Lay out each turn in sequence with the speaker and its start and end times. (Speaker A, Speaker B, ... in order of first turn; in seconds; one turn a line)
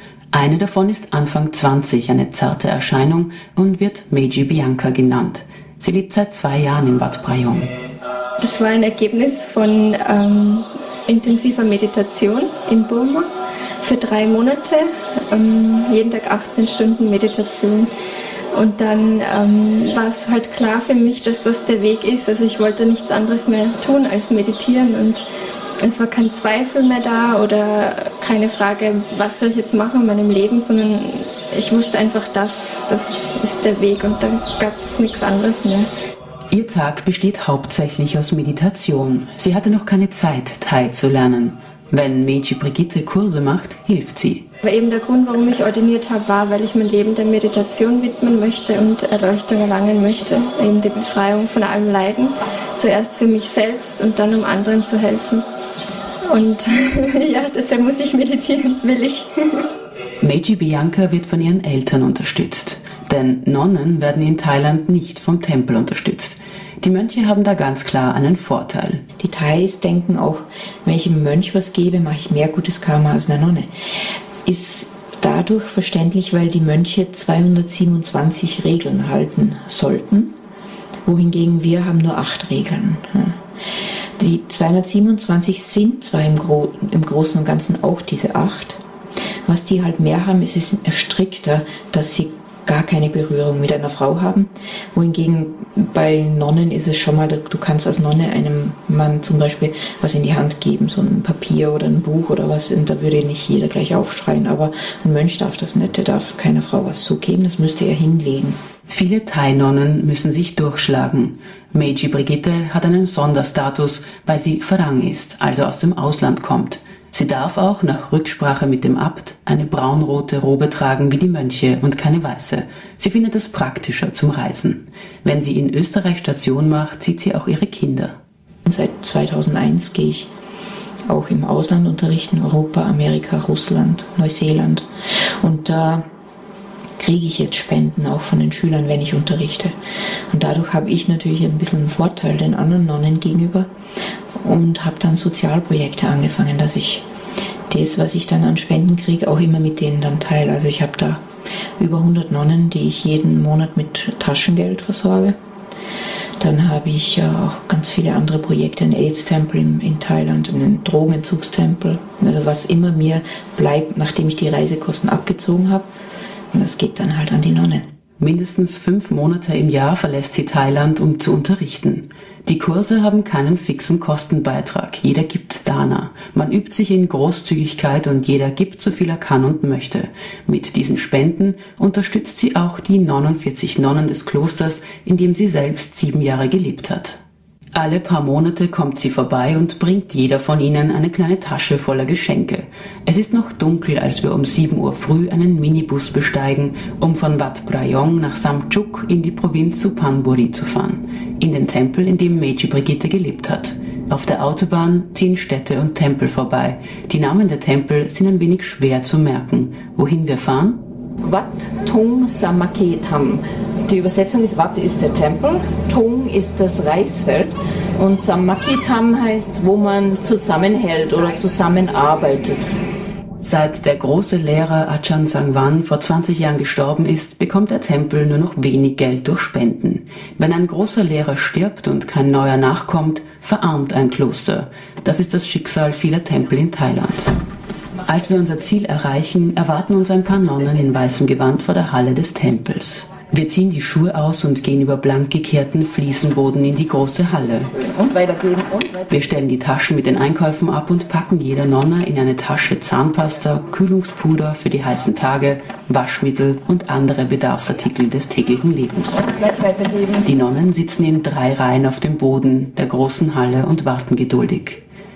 Speaker A: 0.3-7.7
Speaker B: 8.4-13.3
Speaker B: 13.8-17.9
Speaker B: 18.5-25.2
Speaker B: 25.8-35.9
Speaker A: 36.5-44.4
Speaker B: 44.6-55.4
Speaker B: 56.3-59.6
Speaker A: 60.2-69.0
Speaker C: 69.2-73.7
Speaker C: 74.4-80.3
Speaker C: 81.0-83.4
Speaker C: 84.2-88.8
Speaker C: 89.5-108.6
Speaker A: 108.9-128.2
Speaker C: 128.7-130.3
Speaker C: 131.1-136.0
Speaker C: 137.0-139.7
Speaker C: 140.3-143.7
Speaker C: 144.4-147.0
Speaker C: 147.7-151.2
Speaker C: 151.8-155.3
Speaker C: 156.4-165.9
Speaker C: 166.5-167.9
Speaker A: 168.2-187.2
Speaker A: 187.7-210.8
Speaker C: 211.2-222.8
Speaker A: 223.4-237.3
Speaker A: 238.0-247.7
Speaker C: 247.7-249.1
Speaker A: 249.1-259.5
Speaker C: 259.5-260.2
Speaker A: 260.2-264.8